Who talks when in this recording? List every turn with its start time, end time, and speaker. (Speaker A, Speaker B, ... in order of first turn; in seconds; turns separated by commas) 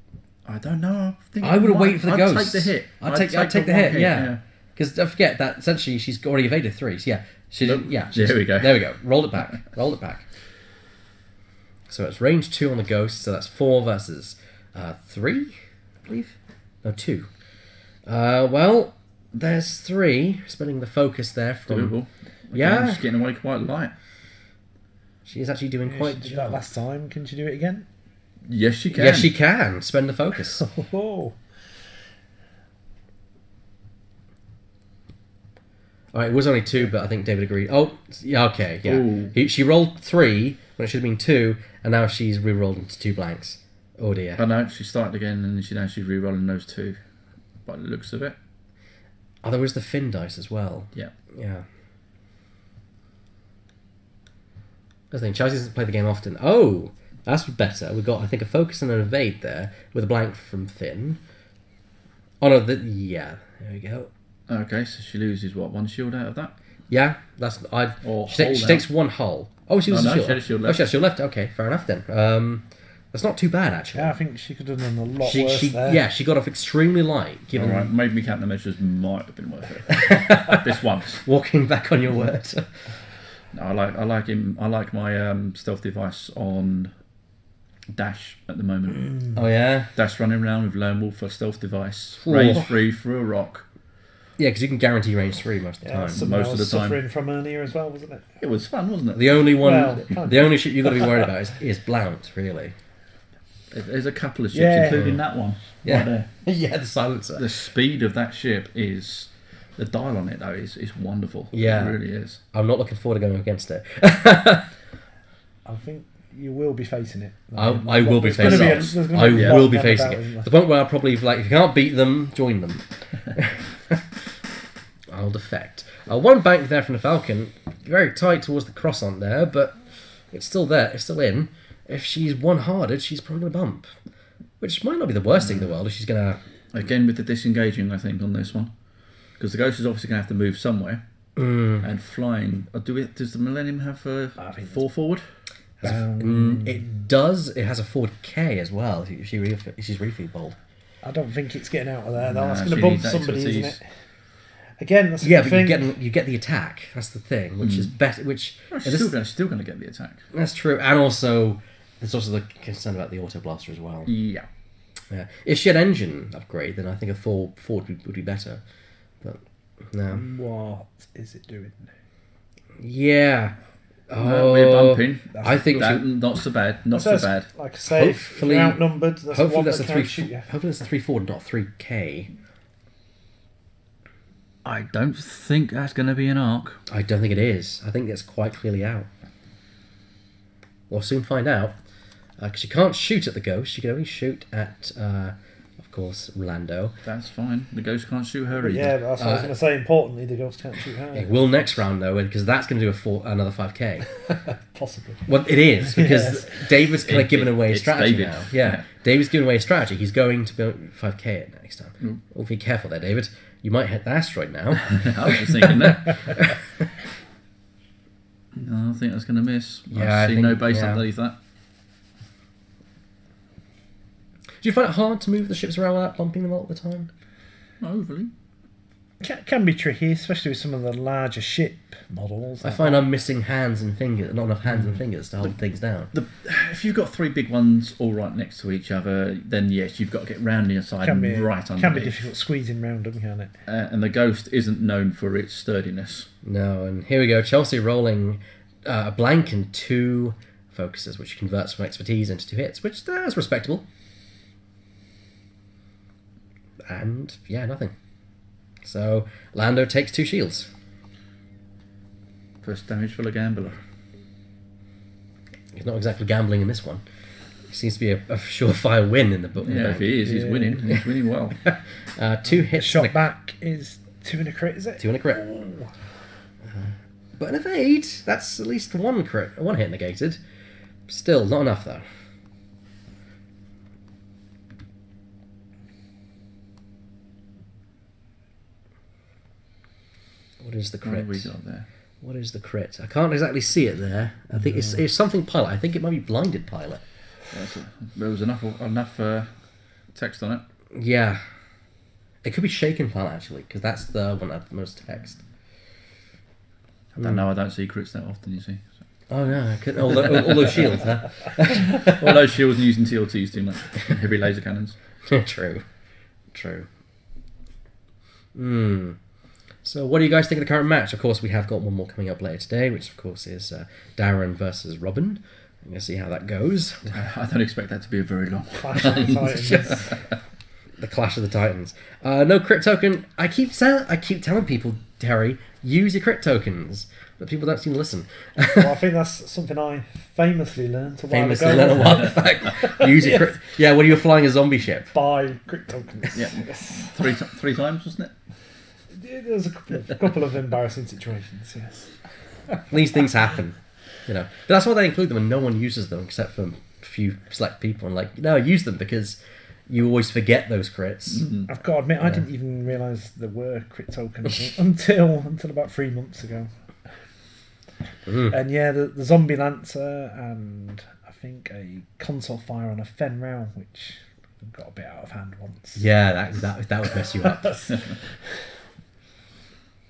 Speaker A: 0.4-4.4, Speaker B: 1.4-10.3, Speaker A: 7.6-8.8, Speaker B: 11.9-17.3, Speaker B: 18.1-21.9, Speaker A: 21.7-23.9, Speaker B: 22.5-23.0, Speaker B: 25.2-26.6, Speaker C: 25.9-27.9, Speaker A: 28.5-29.3, Speaker B: 28.9-30.6, Speaker C: 30.6-31.4, Speaker B: 36.1-44.4, Speaker A: 38.8-39.3, Speaker A: 44.4-47.0, Speaker A: 47.6-48.4, Speaker B: 49.4-51.6, Speaker B: 55.1-61.2, Speaker B: 62.4-64.1, Speaker A: 64.5-66.5, Speaker B: 66.9-74.2, Speaker A: 68.0-68.8, Speaker A: 69.9-70.8, Speaker C: 73.9-76.0, Speaker B: 75.2-77.9, Speaker A: 77.5-81.2, Speaker B: 79.9-82.7, Speaker A: 83.5-86.9, Speaker A: 87.9-89.3, Speaker B: 89.3-89.9, Speaker A: 90.0-93.7, Speaker B: 92.2-92.7, Speaker B: 94.4-96.3, Speaker C: 95.8-98.3, Speaker A: 96.2-97.0, Speaker A: 98.4-99.4, Speaker B: 99.1-102.7, Speaker C: 99.6-101.1, Speaker A: 103.7-106.3, Speaker C: 104.5-105.2, Speaker B: 104.9-105.2, Speaker B: 105.8-107.6, Speaker A: 107.3-112.4, Speaker B: 111.5-112.0, Speaker B: 112.5-114.7, Speaker C: 115.6-120.5, Speaker B: 117.5-124.3, Speaker A: 118.4-119.6, Speaker B: 125.1-133.9, Speaker B: 134.6-136.4, Speaker A: 135.4-135.7, Speaker A: 136.7-138.7, Speaker A: 139.4-141.0, Speaker B: 141.4-141.8, Speaker A: 141.8-145.3, Speaker C: 144.4-144.8, Speaker B: 145.8-150.6, Speaker C: 145.8-147.0, Speaker C: 151.0-154.0, Speaker A: 152.2-153.8, Speaker C: 154.8-155.9, Speaker B: 155.2-159.1, Speaker A: 157.6-157.9, Speaker A: 158.7-160.2, Speaker B: 160.3-164.1, Speaker A: 164.1-164.5, Speaker B: 165.1-168.6, Speaker B: 169.2-170.2, Speaker C: 170.1-171.9, Speaker B: 172.8-173.6, Speaker B: 174.1-176.0, Speaker A: 174.2-177.5, Speaker C: 175.3-175.7, Speaker C: 176.9-180.5, Speaker B: 177.8-182.3, Speaker A: 184.6-186.8, Speaker B: 186.9-189.1, Speaker B: 190.9-191.7, Speaker B: 192.4-196.9, Speaker A: 197.0-199.0, Speaker C: 198.6-201.3, Speaker B: 199.2-199.6, Speaker B: 201.1-204.1, Speaker C: 204.2-205.2, Speaker B: 205.2-216.9, Speaker C: 205.8-206.7, Speaker A: 207.0-208.8, Speaker A: 214.9-216.4, Speaker A: 218.5-221.3, Speaker B: 219.9-221.0, Speaker B: 224.6-227.1, Speaker A: 227.8-228.3, Speaker C: 229.2-233.1, Speaker B: 232.6-236.1, Speaker A: 236.1-242.3, Speaker C: 241.0-243.5, Speaker A: 243.7-246.3, Speaker B: 246.4-253.8, Speaker B: 256.9-257.9, Speaker B: 258.8-260.7, Speaker A: 262.6-263.8, Speaker B: 265.7-267.0, Speaker B: 267.7-270.2, Speaker A: 269.6-271.6, Speaker C: 270.2-270.8, Speaker B: 271.6-273.2, Speaker C: 272.5-275.9, Speaker B: 275.0-275.4, Speaker B: 276.7-280.4, Speaker B: 281.1-282.0, Speaker B: 290.6-291.5, Speaker A: 291.0-291.9, Speaker B: 292.2-297.0, Speaker A: 297.5-299.5, Speaker A: 300.1-300.6, Speaker B: 300.9-301.4, Speaker B: 302.4-305.4, Speaker A: 307.1-308.9, Speaker B: 309.3-312.4, Speaker A: 310.4-310.8, Speaker A: 311.8-315.0, Speaker B: 315.2-315.8, Speaker B: 316.5-316.9, Speaker B: 318.5-319.2, Speaker B: 319.8-327.2, Speaker A: 327.1-330.2, Speaker C: 328.7-330.2, Speaker B: 329.4-330.1, Speaker B: 331.0-339.0, Speaker C: 338.7-343.5, Speaker B: 341.3-345.1, Speaker C: 345.1-347.2, Speaker A: 346.3-348.3, Speaker C: 349.1-352.1, Speaker B: 352.9-361.5, Speaker A: 361.3-361.7, Speaker C: 361.7-366.7, Speaker B: 368.3-368.6, Speaker C: 368.4-376.0, Speaker B: 375.9-377.7, Speaker C: 377.3-378.6